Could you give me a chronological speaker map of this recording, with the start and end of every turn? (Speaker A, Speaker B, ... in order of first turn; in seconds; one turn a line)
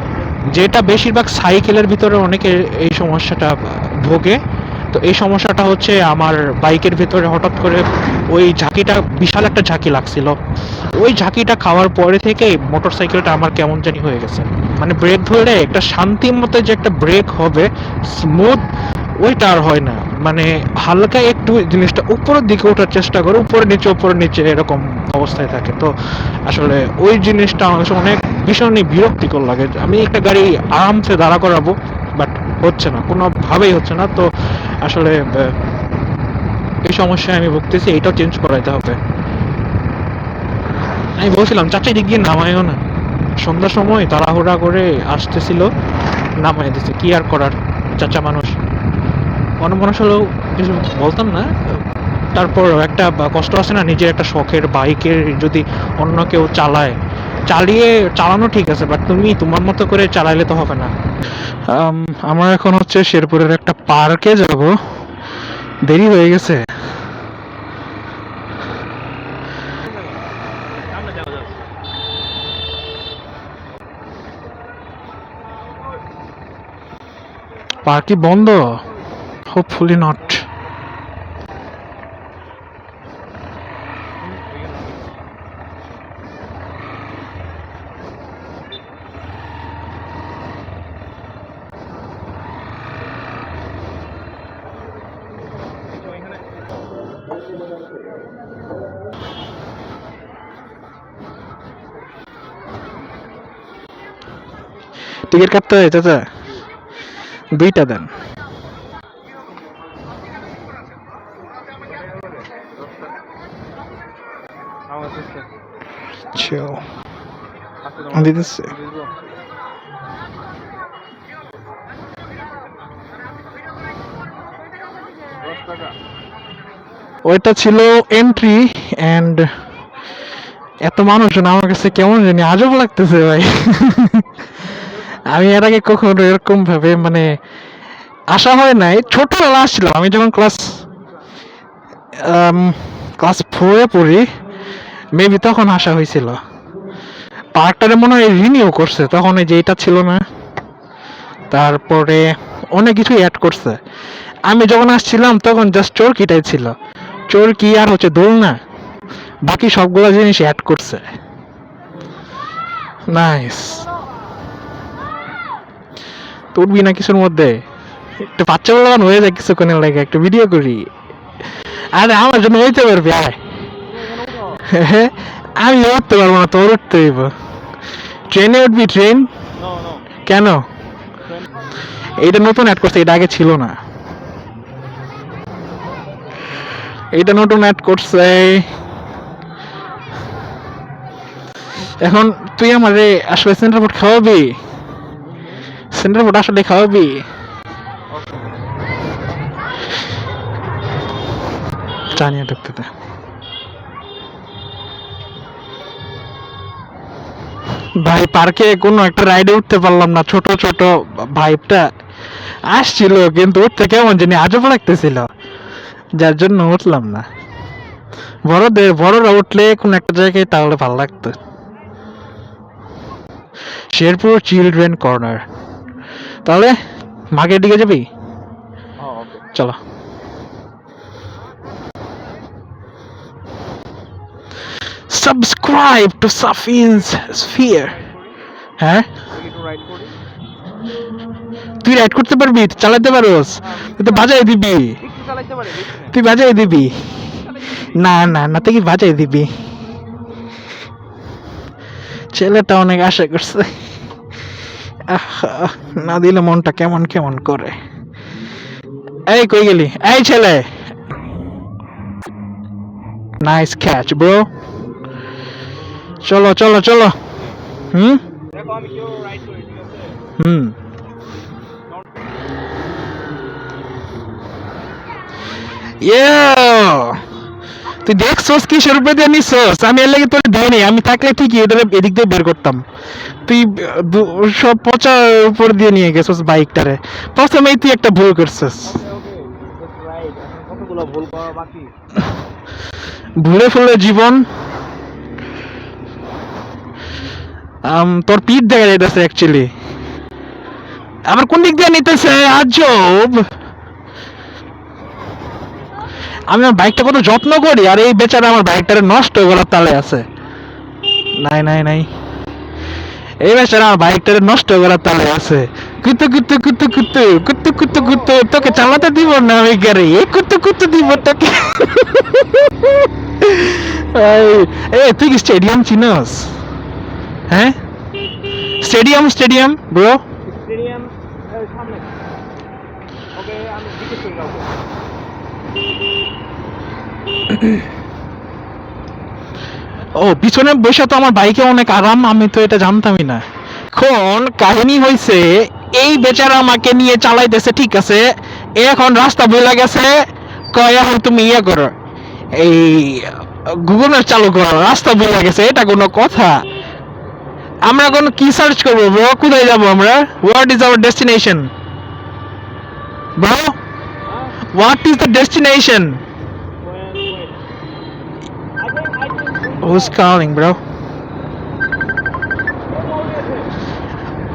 Speaker A: 0.5-4.4
Speaker A: 4.9-10.4
Speaker A: 10.9-18.6
Speaker A: 19.2-25.9
Speaker A: 26.5-34.3
Speaker A: 34.8-35.5
Speaker A: 36.9-39.0
Speaker A: 41.2-42.8
Speaker A: 43.4-45.7
Speaker A: 46.4-48.6
Speaker A: 49.6-51.5
Speaker A: 52.3-57.0
Speaker A: 57.5-60.9
Speaker A: 61.7-64.8
Speaker A: 65.8-66.7
Speaker B: 70.8-71.5
Speaker A: 77.8-78.8
Speaker A: 79.5-80.4
Speaker A: 105.3-106.3
Speaker A: 107.5-108.1
Speaker B: 114.9-115.5
Speaker A: 116.3-116.8
Speaker B: 117.8-119.1
Speaker A: 118.1-118.7
Speaker B: 125.4-126.0
Speaker A: 127.2-129.5
Speaker A: 130.8-134.3
Speaker A: 135.3-137.4
Speaker A: 138.3-140.8
Speaker A: 142.2-144.2
Speaker A: 145.1-146.4
Speaker A: 147.5-150.2
Speaker A: 151.5-153.8
Speaker A: 154.5-156.7
Speaker A: 157.3-158.6
Speaker A: 159.4-161.0
Speaker A: 163.1-163.8
Speaker A: 166.5-167.6
Speaker A: 168.2-170.9
Speaker A: 171.9-173.3
Speaker B: 173.8-174.6
Speaker A: 174.6-177.3
Speaker A: 178.3-179.3
Speaker B: 179.6-180.0
Speaker A: 180.3-180.6
Speaker A: 182.2-183.8
Speaker A: 187.1-188.7
Speaker A: 192.0-194.5
Speaker A: 195.9-197.2
Speaker B: 198.1-198.5
Speaker A: 202.1-202.9
Speaker A: 208.0-211.9
Speaker A: 212.7-215.3
Speaker A: 216.2-217.2
Speaker A: 218.4-221.3
Speaker A: 223.9-225.4
Speaker A: 226.4-226.8
Speaker A: 227.3-228.1
Speaker B: 229.0-229.4
Speaker A: 235.1-237.9
Speaker B: 237.2-238.3
Speaker A: 238.8-239.1
Speaker B: 239.3-240.1
Speaker A: 241.8-245.0
Speaker B: 243.6-244.2
Speaker B: 245.0-246.1
Speaker A: 246.1-246.9
Speaker B: 247.5-247.9
Speaker A: 247.9-249.5
Speaker A: 252.3-253.7
Speaker A: 255.0-257.8
Speaker A: 259.3-260.7
Speaker A: 263.4-264.5
Speaker A: 266.2-267.2
Speaker A: 267.9-268.2
Speaker B: 268.5-270.2
Speaker A: 270.4-270.7
Speaker A: 276.0-277.2
Speaker A: 278.0-282.8
Speaker A: 283.4-289.0
Speaker B: 288.8-291.9
Speaker A: 293.4-294.5
Speaker A: 297.8-299.7
Speaker A: 301.3-303.5
Speaker A: 306.5-310.2
Speaker A: 311.4-312.1
Speaker A: 313.4-326.5
Speaker B: 317.9-319.1
Speaker A: 327.5-327.8
Speaker A: 328.8-330.2
Speaker B: 330.4-332.1
Speaker B: 333.3-334.8
Speaker A: 337.5-337.8
Speaker A: 340.2-351.9
Speaker A: 352.5-356.6
Speaker A: 357.9-361.7
Speaker A: 363.4-363.8
Speaker B: 364.3-364.6
Speaker A: 364.7-366.2
Speaker B: 366.8-367.6
Speaker B: 368.8-370.2
Speaker A: 369.8-370.8
Speaker B: 372.9-373.7